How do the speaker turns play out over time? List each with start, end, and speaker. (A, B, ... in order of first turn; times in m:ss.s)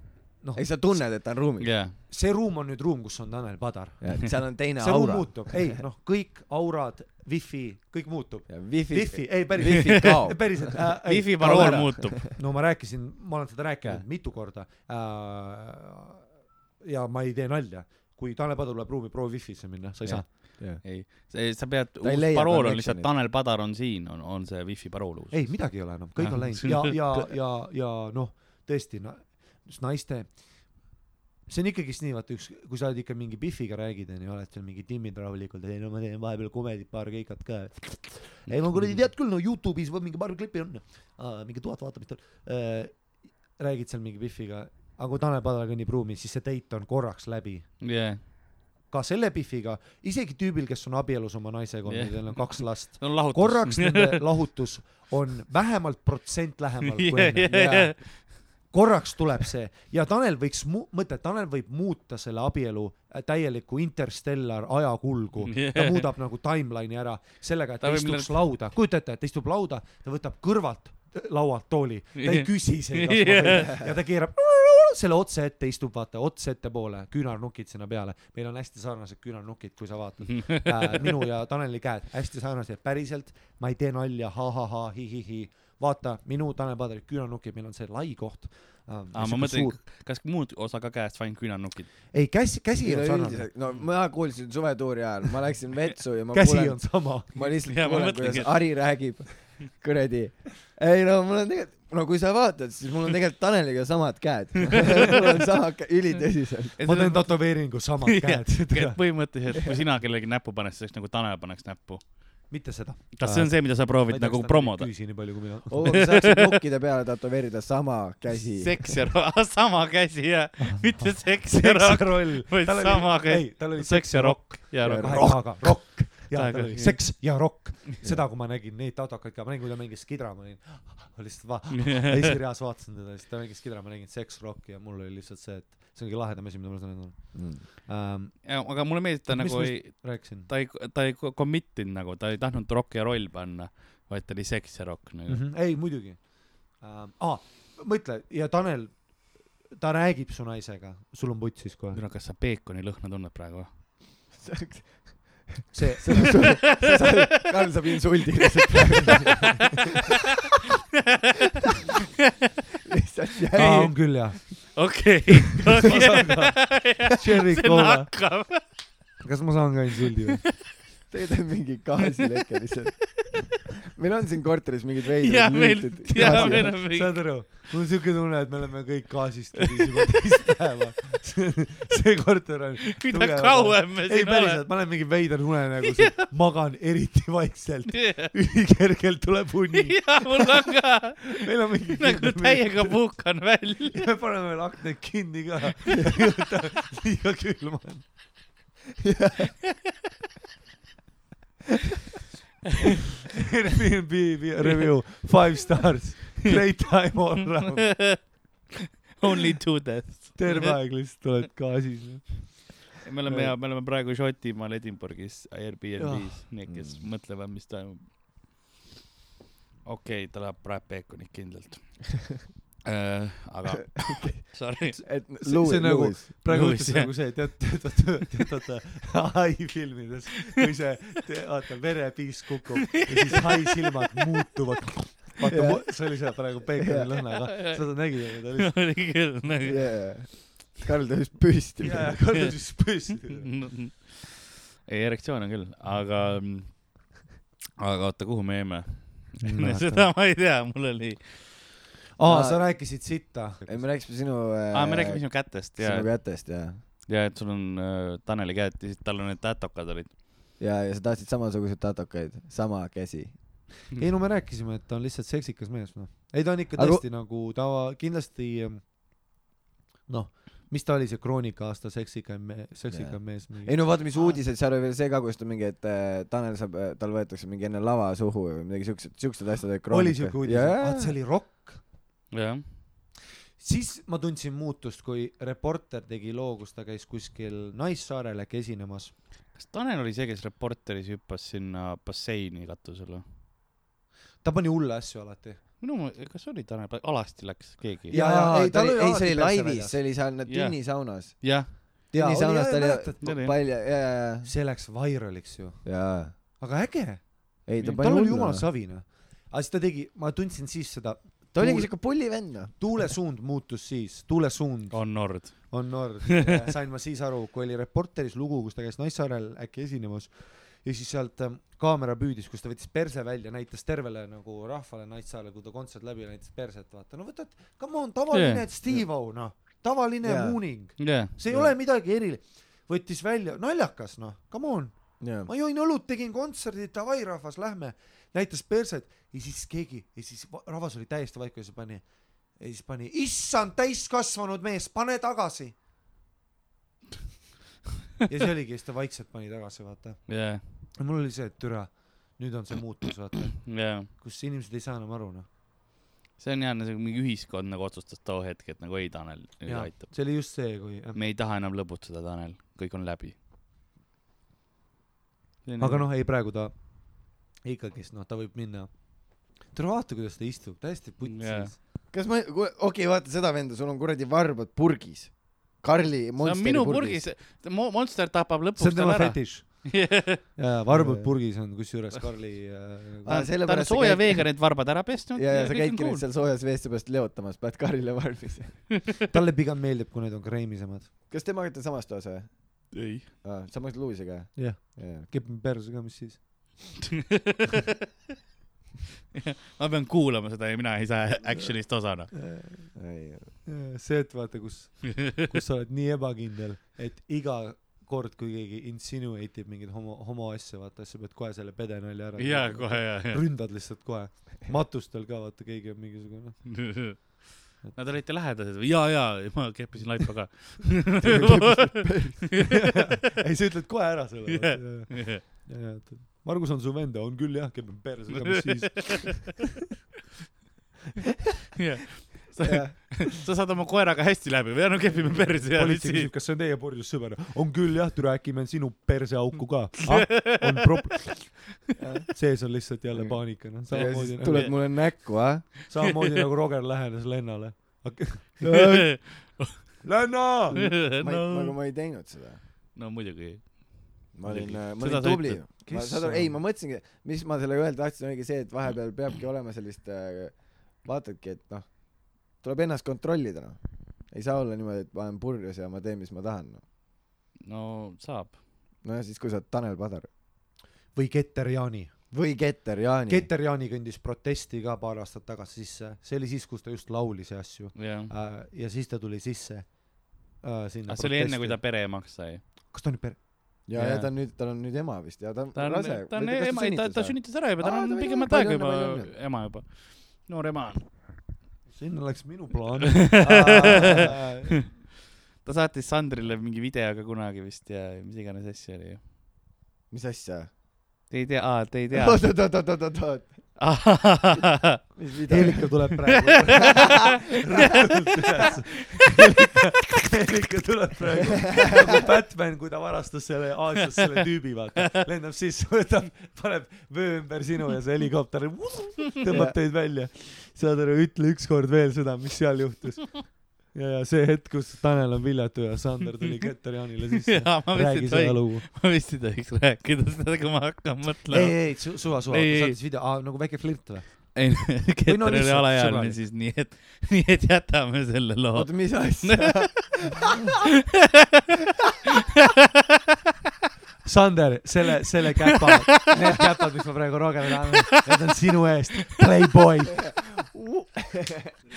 0:00.4-0:01.0 A
0:00.5-0:01.7 B
0:01.6-0:02.0 C
0:02.0-0:16.3 A
0:04.0-0:05.8 B
0:08.5-0:12.3 B
0:09.9-0:10.2 C
0:10.8-0:12.2 C
0:16.8-0:20.3 A
0:20.0-0:21.1 B
0:20.2-0:27.3 C
0:22.0-0:23.1 B
0:25.3-0:30.9 A
0:31.4-0:47.7 A
0:38.5-0:38.8 C
0:47.8-0:48.2 C
0:48.9-1:29.8 A
0:51.8-0:54.2 C
0:56.8-0:58.2 C
0:57.5-0:57.9 B
1:05.4-1:06.1 C
1:07.8-1:08.3 C
1:12.2-1:13.8 C
1:20.3-1:21.0 C
1:29.1-1:32.0 C
1:32.1-1:33.5 A
1:32.8-1:46.8 B
1:36.3-1:37.4 A
1:37.6-1:38.8 C
1:46.8-1:52.5 C
1:46.8-1:49.1 A
1:52.5-1:56.0 A
1:53.2-1:56.5 C
1:55.7-1:59.0 B
1:58.6-2:07.6 C
2:00.6-2:18.6 A
2:04.8-2:06.0 B
2:11.7-2:12.4 C
2:17.3-2:17.6 B
2:18.4-2:25.4 C
2:19.3-2:20.5 A
2:25.3-2:32.0 A
2:31.9-2:33.8 C
2:34.3-2:39.8 B
2:35.7-2:36.8 A
2:36.3-2:37.2 C
2:42.9-2:44.0 B
2:43.5-2:48.6 C
2:43.5-2:45.0 A
2:45.6-2:48.3 A
2:49.2-2:50.4 A
2:51.1-2:53.3 B
2:53.9-2:56.7 B
2:55.2-2:57.6 C
2:56.1-3:13.0 A
2:59.6-3:00.0 C
3:02.9-3:04.6 C
3:05.8-3:06.3 C
3:07.9-3:08.3 C
3:09.7-3:14.1 C
3:13.8-3:18.1 A
3:19.0-3:19.5 B
3:23.3-3:28.1 A
3:27.7-3:28.3 C
3:29.2-3:30.8 C
3:30.4-3:33.6 A
3:33.0-3:38.1 C
3:36.0-3:36.4 A
3:36.6-3:37.1 B
3:39.8-3:45.0 C
3:44.0-3:46.3 B
3:45.0-3:59.3 A
3:46.5-3:47.8 C
3:52.9-3:54.0 C
3:55.4-3:57.1 B
3:57.5-3:59.9 C
3:59.6-4:02.2 B
4:01.8-4:03.7 A
4:03.4-4:07.1 C
4:07.8-4:11.5 C
4:09.4-4:10.1 A
4:12.2-4:13.8 A
4:12.2-4:13.0 B
4:13.6-4:16.8 B
4:14.7-4:16.3 C
4:17.0-4:20.2 C
4:20.6-4:23.4 B
4:23.9-4:28.8 A
4:26.8-4:27.0 B
4:30.1-4:34.4 A
4:32.9-4:41.2 B
4:39.9-4:41.8 A
4:42.3-4:42.8 C
4:43.6-4:49.2 A
4:49.5-4:53.2 C
4:54.4-4:55.6 A
4:55.8-4:58.2 C
4:58.1-5:00.0 A
4:58.1-5:04.5 B
5:00.4-5:01.8 C
5:02.1-5:03.2 A
5:03.2-5:03.6 C
5:04.4-5:45.7 A
5:05.8-5:06.3 B
5:07.6-5:08.7 B
5:11.5-5:13.0 B
5:14.9-5:16.5 C
5:16.4-5:16.7 B
5:28.3-5:28.6 C
5:28.8-5:29.1 B
5:30.2-5:31.8 B
5:31.0-5:31.3 C
5:35.2-5:35.5 B
5:48.3-5:55.5 A
5:50.3-5:50.6 C
5:53.6-5:54.1 C
5:56.4-6:00.1 C
5:59.6-6:01.2 A
6:01.1-6:03.3 C
6:05.6-6:06.1 C
6:05.8-6:11.8 A
6:11.2-6:11.7 C
6:12.1-6:17.2 B
6:16.4-6:20.4 C
6:18.8-6:23.4 A
6:20.9-6:21.3 B
6:23.2-6:29.0 B
6:23.3-6:26.2 C
6:29.2-6:31.1 A
6:31.3-6:35.3 B
6:32.9-6:33.3 C
6:34.5-6:36.9 A
6:37.3-6:37.7 C
6:39.3-6:42.3 C
6:41.5-6:43.0 A
6:42.9-6:43.6 B
6:43.6-6:57.1 A
6:45.1-6:45.4 C
6:52.4-6:53.4 C
6:56.7-7:02.3 C
7:01.2-7:02.7 B
7:02.7-7:09.7 A
7:04.5-7:05.4 C
7:08.3-7:09.5 C
7:11.8-7:16.3 C
7:12.6-7:13.3 B
7:15.6-7:21.8 A
7:20.0-7:21.5 C
7:22.0-7:22.3 B
7:22.3-7:24.8 A
7:23.1-7:25.7 B
7:23.9-7:25.1 C
7:25.8-7:28.7 A
7:28.6-7:29.1 B
7:28.6-7:30.0 C
7:30.0-7:31.0 A
7:30.7-7:32.6 B
7:30.7-7:31.8 C
7:32.9-7:35.7 C
7:34.3-7:46.8 B
7:35.8-7:36.6 A
7:47.6-7:48.6 C
7:49.0-7:50.3 B
7:51.1-7:52.1 A
7:52.3-7:53.5 B
7:53.3-8:01.8 A
7:57.9-7:58.3 C
8:01.1-8:02.6 C
8:02.9-8:03.4 A
8:03.8-8:09.3 B
8:03.9-8:04.3 C
8:05.7-8:11.1 C
8:11.9-8:14.9 A
8:13.2-8:15.0 C
8:15.6-8:19.2 C
8:20.1-8:20.7 B
8:21.3-8:22.5 C
8:22.1-8:23.6 B
8:23.8-8:25.1 C
8:25.1-8:26.3 B
8:25.5-8:48.9 A
8:25.6-8:27.3 C
8:27.9-8:28.7 C
8:39.5-8:39.8 B
8:47.5-8:53.0 C
8:51.5-8:56.4 A
8:54.5-9:00.4 C
8:58.7-9:00.5 B
9:04.2-9:10.4 A
9:05.7-9:06.3 C
9:10.4-9:11.7 B